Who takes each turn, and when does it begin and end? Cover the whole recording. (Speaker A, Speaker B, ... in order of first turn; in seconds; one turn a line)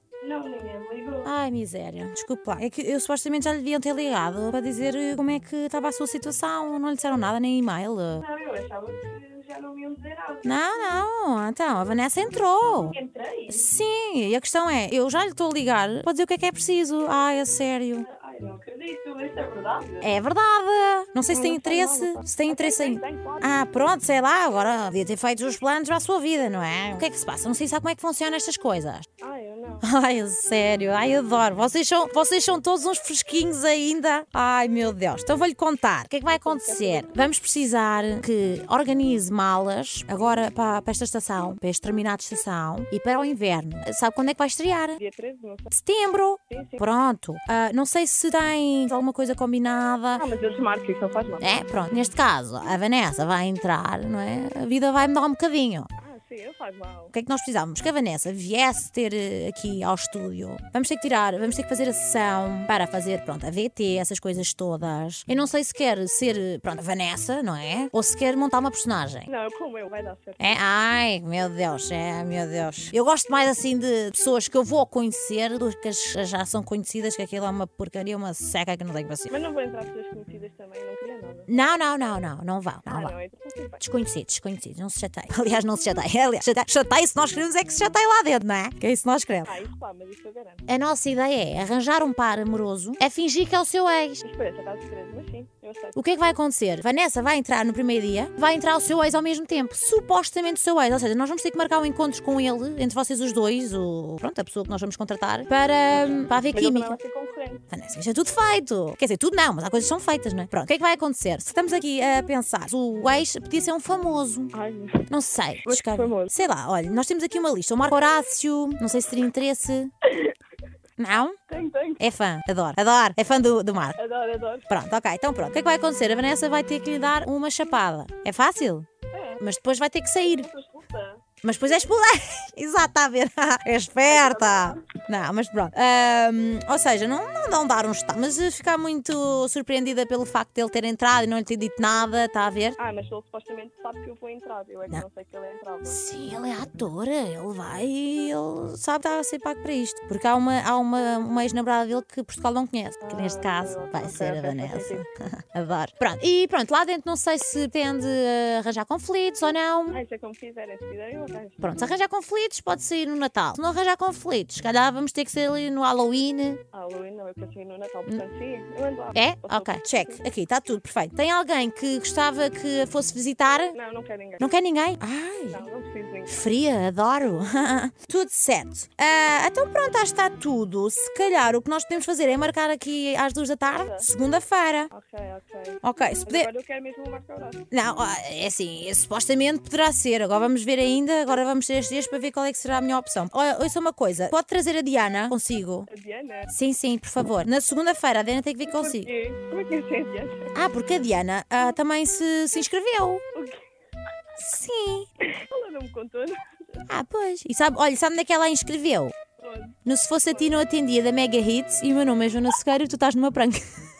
Speaker A: 0.2-1.3
Speaker B: 1.2-8.2
Speaker A: 8.2-11.0
Speaker B: 10.4-13.0
Speaker A: 12.8-13.7
Speaker B: 13.5-18.1
Speaker A: 18.0-20.1
Speaker B: 20.0-29.1
Speaker A: 21.3-23.5
Speaker A: 29.2-29.9
Speaker B: 29.8-45.0
Speaker A: 36.3-37.3
Speaker A: 45.0-45.7
Speaker B: 45.7-50.2
Speaker A: 46.5-46.8
Speaker A: 50.2-52.0
Speaker B: 51.4-55.9
Speaker A: 56.0-57.1
Speaker B: 57.1-69.3
Speaker A: 69.2-70.6
Speaker B: 70.4-79.3
Speaker A: 79.3-81.6
Speaker B: 81.5-83.1
Speaker A: 82.8-83.8
Speaker B: 83.8-89.5
Speaker A: 89.4-90.6
Speaker B: 90.7-94.2
Speaker A: 94.2-96.0
Speaker B: 96.0-107.0
Speaker A: 106.5-107.6
Speaker B: 107.7-114.5
Speaker A: 114.5-115.1
Speaker B: 115.1-119.9
Speaker A: 115.6-116.3
Speaker A: 120.1-120.3
Speaker B: 121.0-121.4
Speaker A: 121.5-122.0
Speaker B: 122.0-124.0
Speaker A: 124.0-124.7
Speaker B: 124.7-128.9
Speaker A: 129.1-129.4
Speaker B: 129.4-130.5
Speaker A: 130.2-131.9
Speaker B: 131.4-142.8
Speaker A: 134.0-135.0
Speaker A: 142.8-146.0
Speaker B: 145.8-160.0
Speaker A: 153.0-155.0
Speaker A: 159.9-161.9
Speaker B: 161.6-166.6
Speaker A: 166.7-170.2
Speaker B: 169.1-173.8
Speaker A: 173.7-174.5
Speaker B: 174.4-175.6
Speaker A: 175.5-176.4
Speaker B: 176.3-184.9
Speaker A: 183.7-184.1
Speaker A: 184.9-187.6
Speaker B: 185.8-186.5
Speaker B: 187.7-195.9
Speaker A: 195.9-196.5
Speaker B: 196.5-199.1
Speaker A: 198.7-200.6
Speaker B: 200.5-203.2
Speaker A: 203.3-203.7
Speaker B: 204.4-205.1
Speaker A: 205.2-206.8
Speaker B: 206.9-209.1
Speaker A: 209.4-210.6
Speaker B: 209.8-213.6